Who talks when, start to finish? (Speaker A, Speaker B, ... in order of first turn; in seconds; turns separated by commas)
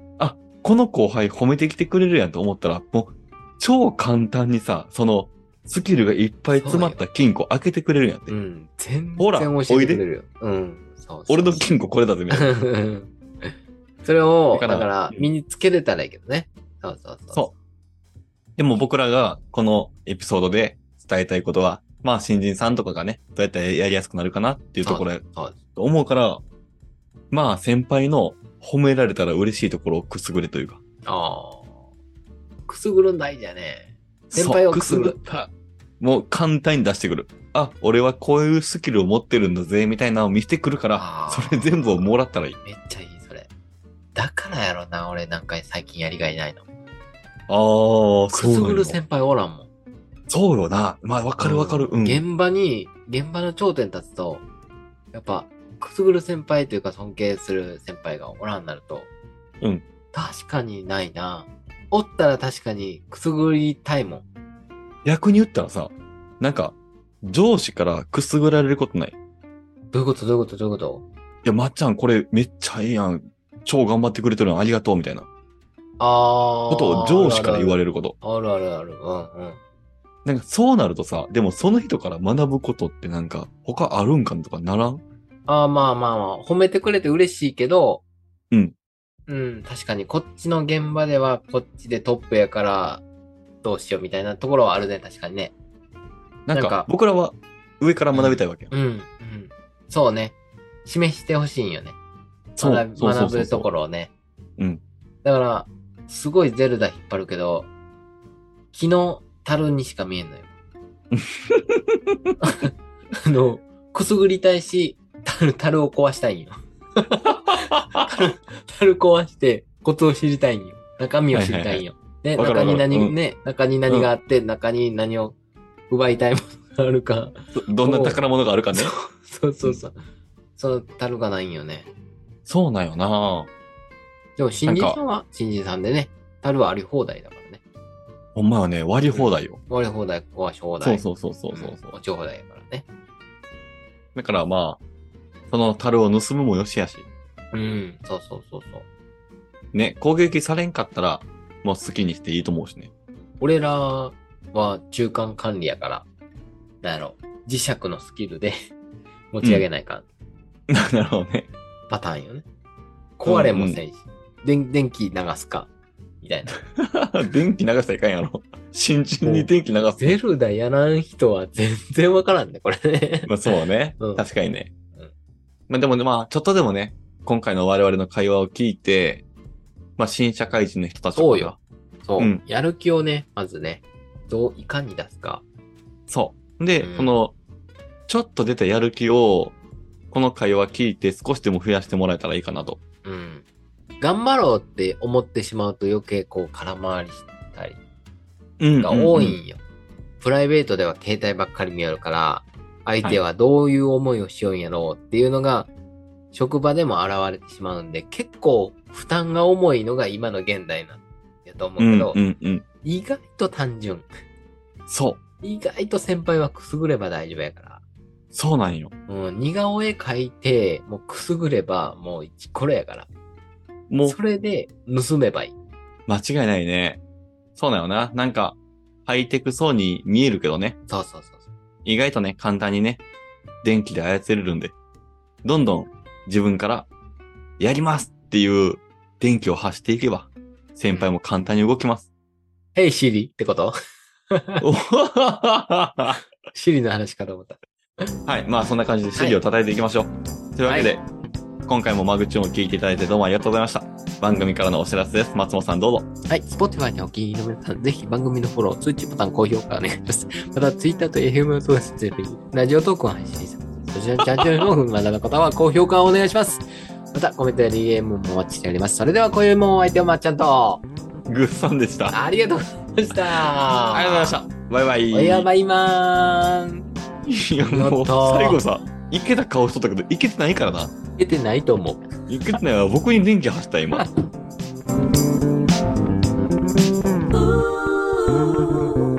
Speaker A: 0.2-8.3, Speaker B: 6.6-7.0, Speaker B: 8.3-11.7, Speaker A: 9.2-10.0, Speaker A: 11.3-12.5, Speaker B: 12.3-17.5, Speaker A: 14.5-15.3, Speaker A: 18.6-25.2, Speaker B: 24.8-25.6, Speaker A: 25.7-26.4, Speaker A: 27.3-30.8, Speaker B: 31.0-31.8, Speaker B: 32.7-35.2, Speaker A: 34.3-42.6, Speaker B: 41.0-42.1, Speaker B: 42.6-43.5, Speaker B: 44.1-46.6, Speaker A: 47.5-49.0, Speaker B: 48.3-49.7, Speaker A: 50.3-52.2, Speaker B: 51.4-54.4, Speaker B: 55.1-59.1, Speaker B: 60.1-64.2, Speaker A: 65.0-69.1, Speaker B: 69.9-71.0, Speaker A: 71.4-75.3, Speaker B: 76.0-79.6, Speaker A: 76.7-78.1, Speaker A: 80.2-85.0, Speaker B: 85.5-88.0, Speaker B: 89.3-93.0, Speaker B: 93.6-95.5, Speaker A: 96.5-98.7, Speaker B: 96.5-96.9, Speaker B: 98.1-102.0, Speaker A: 102.6-103.7, Speaker B: 102.6-104.1, Speaker B: 105.2-107.7, Speaker B: 108.7-110.5, Speaker A: 111.1-112.3, Speaker B: 112.4-125.3, Speaker A: 117.5-118.1, Speaker A: 121.3-121.8, Speaker A: 122.3-123.2, Speaker B: 125.9-128.2, Speaker A: 127.5-128.9, Speaker B: 128.7-130.0, Speaker B: 130.6-131.9, Speaker A: 132.5-133.5, Speaker B: 134.4-137.6, Speaker A: 134.7-135.0, Speaker A: 138.3-139.6, Speaker B: 139.1-142.8, Speaker A: 140.8-141.9, Speaker A: 144.1-144.8, Speaker A: 145.5-147.1, Speaker B: 147.5-148.8, Speaker A: 149.7-152.9, Speaker B: 153.4-156.1, Speaker B: 156.8-158.6, Speaker B: 159.3-160.1, Speaker A: 160.7-161.5, Speaker B: 161.9-162.4, Speaker B: 163.2-165.7, Speaker A: 163.2-163.8, Speaker B: 166.2-166.6, Speaker A: 166.7-170.2, Speaker B: 169.2-174.2, Speaker A: 173.2-174.7, Speaker A: 175.7-179.2, Speaker A: 180.0-181.6, Speaker B: 181.1-185.4, Speaker A: 186.1-187.3, Speaker B: 186.8-187.2, Speaker A: 188.1-189.5, Speaker A: 190.1-192.8, Speaker B: 193.0-193.4, Speaker B: 194.0-197.8, Speaker A: 198.6-199.4, Speaker B: 198.8-199.6, Speaker B: 200.2-205.7, Speaker B: 206.3-212.2, Speaker A: 211.8-212.6, Speaker B: 212.8-214.2, Speaker A: 214.9-215.2, Speaker B: 215.4-217.8, Speaker A: 218.3-218.9, Speaker B: 219.1-223.1, Speaker A: 223.9-224.2, Speaker B: 224.0-225.5, Speaker A: 226.1-227.0, Speaker A: 227.6-230.8, Speaker B: 230.9-231.4, Speaker A: 231.8-233.0, Speaker A: 233.6-234.7, Speaker A: 235.4-236.9, Speaker A: 237.6-242.1, Speaker B: 242.7-243.7, Speaker B: 244.3-244.6, Speaker A: 244.6-246.2, Speaker B: 246.5-248.1, Speaker A: 248.2-251.0, Speaker B: 249.2-249.4, Speaker B: 250.7-250.9, Speaker A: 251.6-256.1, Speaker B: 256.3-270.8, Speaker A: 264.2-264.6, Speaker A: 271.3-272.1, Speaker B: 272.1-274.4, Speaker A: 273.9-275.5, Speaker B: 275.1-276.9, Speaker A: 277.2-280.9, Speaker B: 277.7-278.6, Speaker B: 281.2-282.6, Speaker A: 282.3-284.1, Speaker B: 287.4-288.7